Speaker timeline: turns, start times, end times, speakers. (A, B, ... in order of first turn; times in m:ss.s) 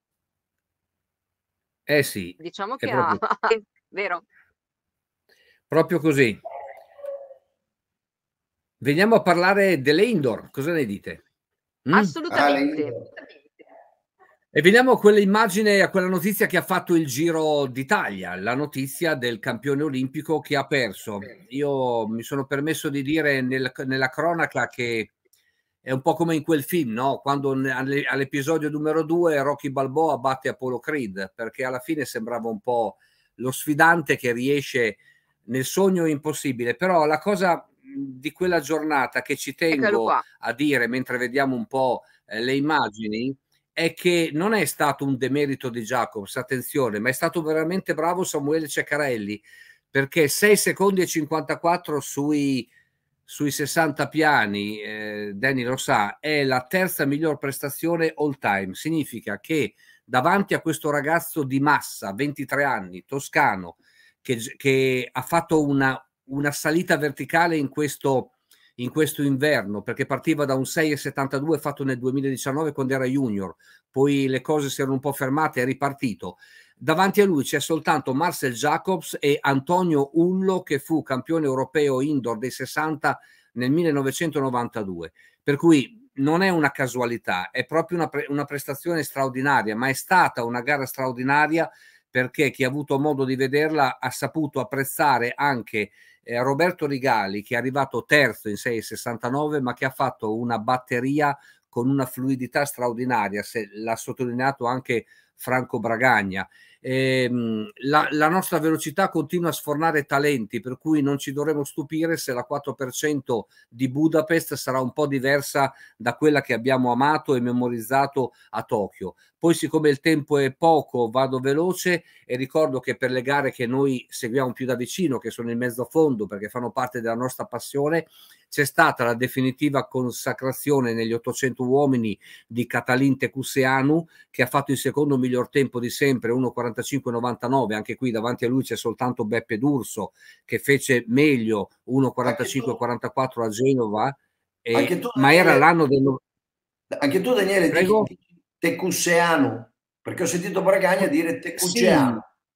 0:01.9-0:03.2 A
0:02.4-0:04.2 B
0:05.7-0:06.4 A
0:08.8-0:11.2 A
0:11.8-0:12.1 A
0:11.9-0:13.2 B
0:12.3-0:13.1 C
0:14.5-0:25.1 A
0:25.8-0:52.7 A
0:39.7-0:40.2 B
0:53.3-2:26.2 A
2:22.2-2:22.8 C
2:24.7-2:25.6 C
2:26.9-2:32.2 C
2:27.7-2:28.1 A
2:31.6-2:32.2 A